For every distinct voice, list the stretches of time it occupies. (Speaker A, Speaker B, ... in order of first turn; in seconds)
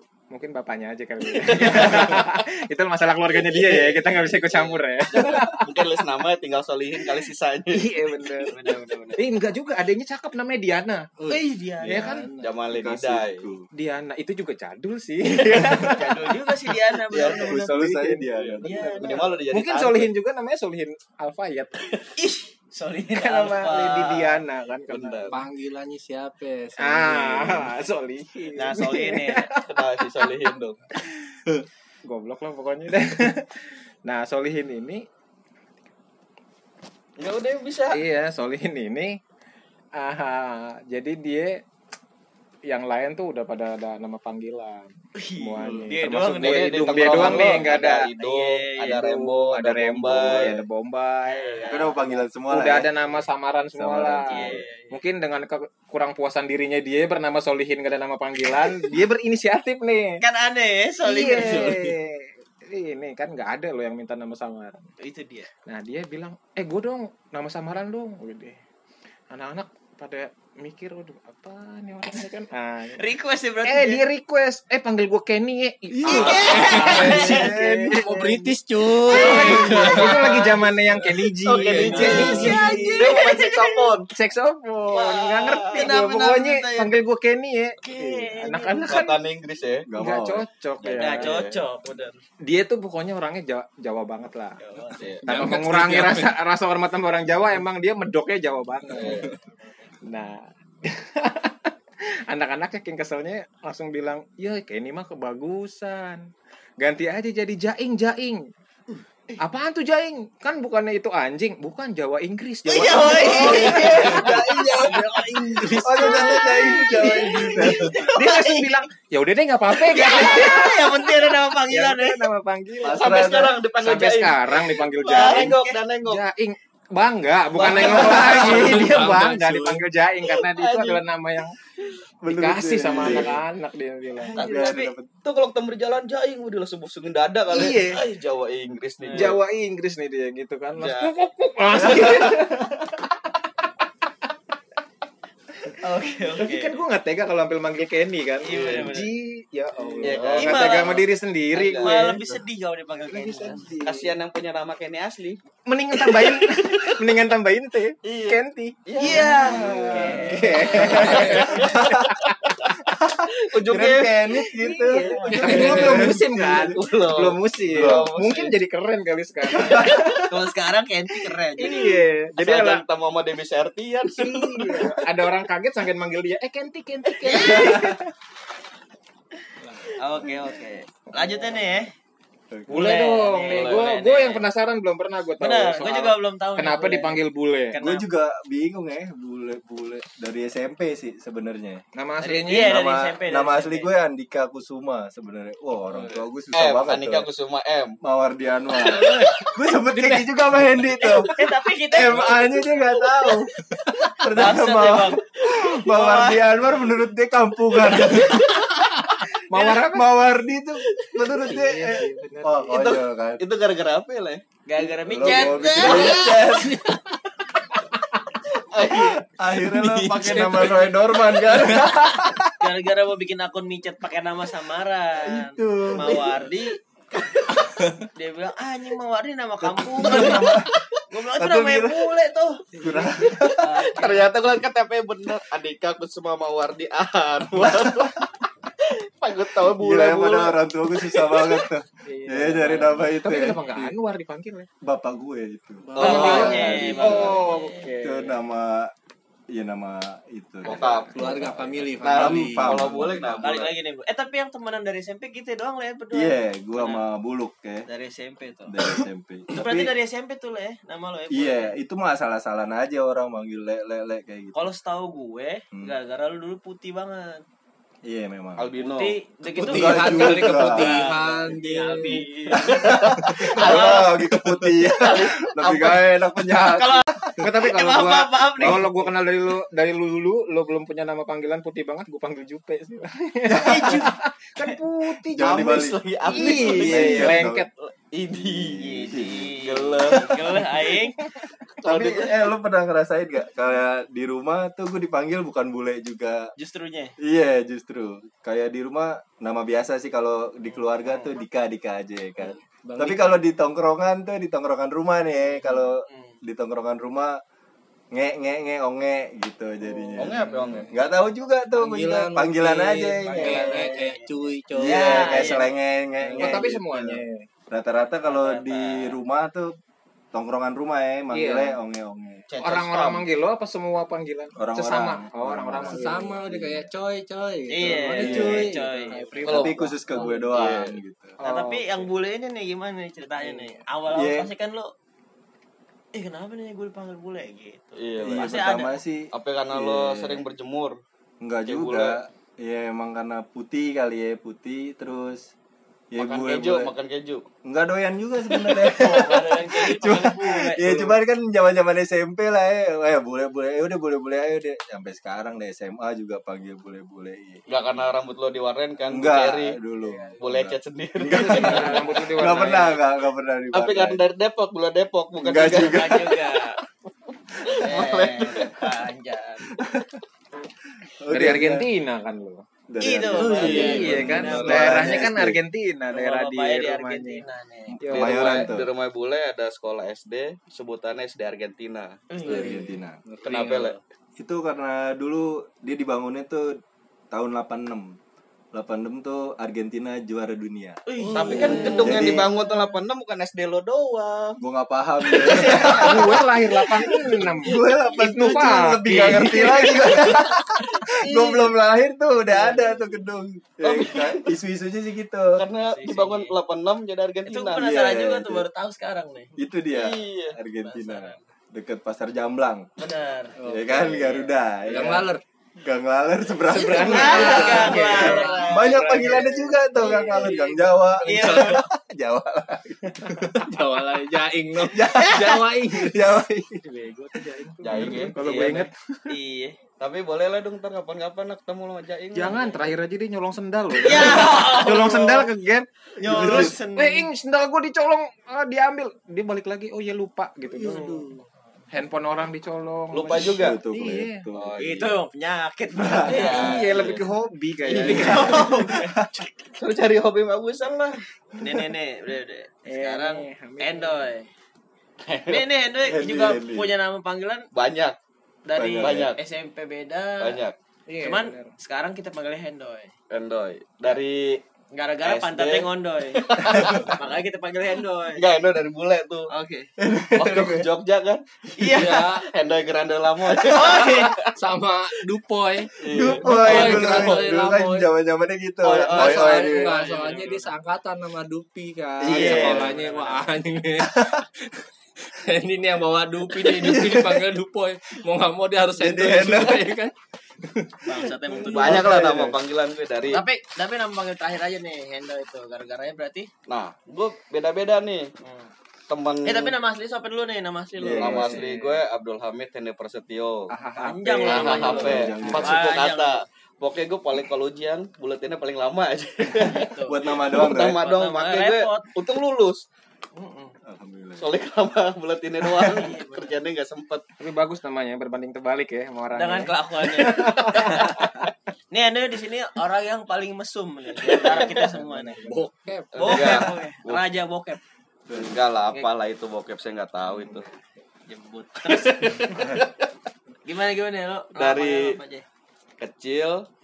Speaker A: 0.3-6.0, 7.7-8.6, 9.2-11.1, 11.8-12.3, 13.7-16.4, 17.2-18.3, 19.5-21.9, 23.1-25.4, 26.8-29.6, 32.0-35.0, 37.9-39.2, 40.0-41.6, 42.6-48.1, 48.9-60.2, 61.0-64.8, 65.7-68.6, 69.3-73.0, 73.6-83.3, 84.1-89.2, 89.9-91.3, 92.4-94.6, 95.2-99.3, 100.0-101.7, 102.3-106.3, 106.8-108.5, 109.4-131.6, 132.2-134.4, 137.5-138.0, 139.1-143.1, 146.3-152.2, 153.1-154.1, 155.7-159.4, 159.9-162.3, 165.0-170.2, 171.6-172.8, 174.2-178.1, 181.2-181.5, 182.7-187.8, 191.9-192.8, 209.5-210.3, 211.3-212.8, 242.1-244.7, 246.0-248.4, 277.4-285.7, 286.2-287.7, 316.3-317.4, 321.3-321.8, 322.6-326.4, 329.1-330.3, 331.4-332.1, 361.3-363.0, 371.3-372.6, 373.6-377.4, 378.0-378.7, 395.7-400.1, 416.7-418.6, 426.9-429.3, 432.3-441.3, 441.9-444.4, 446.3-448.8, 452.9-454.3, 461.1-461.7, 503.8-504.6, 517.4-521.2, 524.3-525.6
Speaker B: 1.4-2.2, 3.5-8.0, 12.4-13.5, 18.3-20.1, 24.9-25.3, 29.6-30.8, 37.2-38.0, 46.4-50.6, 81.4-84.1, 84.9-86.9, 88.8-89.8, 90.8-91.6, 98.9-99.3, 113.2-115.1, 122.8-126.2, 127.5-128.8, 130.2-131.0, 132.9-133.3, 135.2-139.4, 140.8-141.1, 141.8-142.3, 148.5-148.9, 150.0-152.0, 153.8-155.4, 156.0-156.9, 158.0-162.7, 163.4-164.4, 165.2-168.6, 171.6-175.0, 177.3-177.8, 183.4-183.9, 196.5-197.9, 212.7-214.4, 215.7-216.6, 218.7-219.2, 233.9-238.3, 238.8-241.7, 245.9-247.5, 250.6-251.4, 251.9-253.7, 268.6-269.2, 272.6-274.2, 275.0-276.0, 285.4-290.4, 291.8-292.4, 310.2-310.9, 313.5-313.9, 322.5-323.3, 329.4-329.8, 330.5-330.9, 338.0-338.6, 339.3-341.0, 341.6-342.2, 346.2-347.4, 357.7-359.8, 360.4-362.8, 363.7-366.3, 367.5-368.8, 378.1-382.2, 383.4-383.9, 391.3-394.6, 395.3-396.2, 403.8-404.5, 405.6-407.8, 409.9-410.6, 427.8-428.9, 430.0-432.8, 443.1-443.8, 444.5-445.1, 446.3-447.3, 447.8-448.8, 449.4-451.2, 455.2-455.6, 457.7-458.1, 459.0-459.4, 460.4-460.7, 463.3-464.6, 465.2-467.2, 468.3-469.5, 470.4-474.5, 476.0-477.4, 478.8-479.7, 482.3-482.9, 491.6-493.4, 496.7-498.3, 499.1-499.8, 501.1-503.7, 504.4-512.8, 514.4-517.2, 526.1-527.2, 528.3-530.6, 531.8-532.9, 534.5-535.2, 536.0-536.6
Speaker C: 8.5-9.2, 11.3-12.1, 15.9-17.8, 18.6-19.3, 22.2-24.4, 28.6-29.5, 45.1-49.0, 51.2-52.2, 54.3-55.0, 60.2-61.8, 65.0-65.5, 72.9-74.0, 76.0-77.6, 79.1-79.8, 81.8-83.9, 85.7-86.6, 87.8-89.1, 90.9-92.2, 94.6-95.2, 112.7-118.8, 119.7-122.3, 125.0-125.8, 127.6-127.9, 134.3-134.9, 139.0-139.3, 145.8-146.8, 148.4-149.1, 150.2-151.1, 151.8-153.7, 159.0-161.6, 164.6-165.7, 169.6-171.9, 177.3-177.8, 180.0-181.9, 182.7-184.5, 185.4-188.1, 192.2-193.9, 201.0-203.4, 204.2-206.6, 207.8-208.7, 214.7-216.6, 222.6-226.8, 228.0-234.3, 246.0-248.0, 251.2-251.5, 253.4-257.0, 257.9-258.9, 259.5-261.7, 264.5-267.4, 268.8-274.1, 275.0-275.3, 276.6-278.9, 283.6-284.2, 288.8-291.3, 296.6-297.2, 300.7-301.3, 306.1-306.4, 313.3-315.7, 318.2-319.1, 327.7-329.4, 331.4-334.9, 336.1-339.0, 348.7-351.2, 360.0-360.4, 361.6-362.2, 365.6-366.8, 367.6-369.7, 373.0-375.2, 376.1-378.0, 382.3-382.8, 391.1-392.8, 395.3-396.2, 399.1-400.4, 401.1-401.7, 402.5-403.0, 405.8-406.5, 407.5-409.5, 410.8-411.4, 413.0-415.0, 416.7-421.9, 428.4-429.8, 434.0-435.5, 436.1-437.3, 444.8-447.1, 447.9-449.2, 451.6-454.5, 455.4-457.7, 458.6-460.6, 461.2-463.1, 464.9-468.4, 469.5-469.9, 471.8-472.3, 473.7-474.4, 478.9-480.7, 482.3-483.5, 491.0-492.1, 493.3-496.5, 498.4-498.7, 499.4-501.7, 504.0-506.4, 509.6-512.1, 513.3-513.7, 515.8-516.5, 519.3-521.4, 521.9-525.5, 526.2-527.8, 531.3-532.6, 533.6-535.4
Speaker D: 11.2-12.5, 25.3-27.7, 61.4-61.9, 76.0-82.5, 95.2-96.3, 99.0-99.3, 115.4-116.5, 128.1-129.8, 165.3-166.1, 179.6-180.0, 195.9-196.2, 198.8-200.3, 216.6-217.2, 219.6-222.2, 245.8-246.6, 251.1-253.2, 269.5-272.3, 302.8-303.4, 310.3-310.8, 311.7-315.5, 316.2-316.7, 325.9-330.5, 373.4-375.2, 382.4-384.0, 391.2-392.1, 413.6-414.3, 414.9-415.4, 416.9-418.1, 420.0-420.6, 421.2-421.8, 423.6-426.4, 440.7-441.4, 471.9-472.5, 474.6-478.1, 479.1-491.3, 525.4-526.7
Speaker E: 12.7-13.7, 17.2-19.3, 50.3-50.6, 51.7-52.9, 53.7-54.6, 76.0-78.0, 79.2-80.1, 82.0-82.9, 89.9-90.5, 113.3-115.0, 115.7-118.0, 122.8-123.5, 132.2-133.4, 134.4-135.1, 159.1-162.1, 162.9-166.8, 167.7-168.1, 169.6-170.1, 182.5-183.0, 187.8-191.8, 192.5-197.3, 198.0-208.7, 209.5-213.4, 214.8-216.8, 219.2-222.5, 225.2-226.3, 229.7-230.7, 231.2-232.1, 232.8-233.7, 239.6-243.8, 244.8-247.4, 248.0-248.9, 249.5-250.9, 252.0-253.7, 256.1-257.9, 258.7-259.9, 261.3-264.5, 268.0-268.7, 269.6-271.0, 272.5-277.5, 278.6-279.0, 283.5-284.1, 285.2-287.7, 288.4-289.6, 291.8-296.5, 297.2-307.4, 308.1-313.9, 314.7-319.7, 320.3-322.4, 324.6-326.9, 328.0-328.7, 329.4-331.4, 334.1-334.5, 338.2-340.4, 341.4-345.5, 346.1-346.9, 347.6-357.6, 359.1-364.2, 365.4-366.3, 369.7-370.2, 371.0-371.9, 372.9-375.6, 377.9-378.9, 382.4-383.2, 384.4-386.8, 387.3-388.1, 388.7-391.0, 392.0-392.5, 394.6-396.4, 397.1-405.6, 407.7-408.7, 409.6-412.9, 413.7-415.3, 415.8-423.7, 424.8-426.8, 427.9-428.3, 436.2-436.8, 443.5-444.8, 445.9-446.6, 448.5-449.3, 456.0-456.9, 458.7-459.3, 470.0-470.9, 476.1-480.0, 482.2-482.9, 484.1-484.4, 486.5-487.5, 489.0-489.8, 491.5-492.6, 501.0-501.7, 503.7-505.8, 510.0-511.0, 513.8-514.5, 528.3-528.6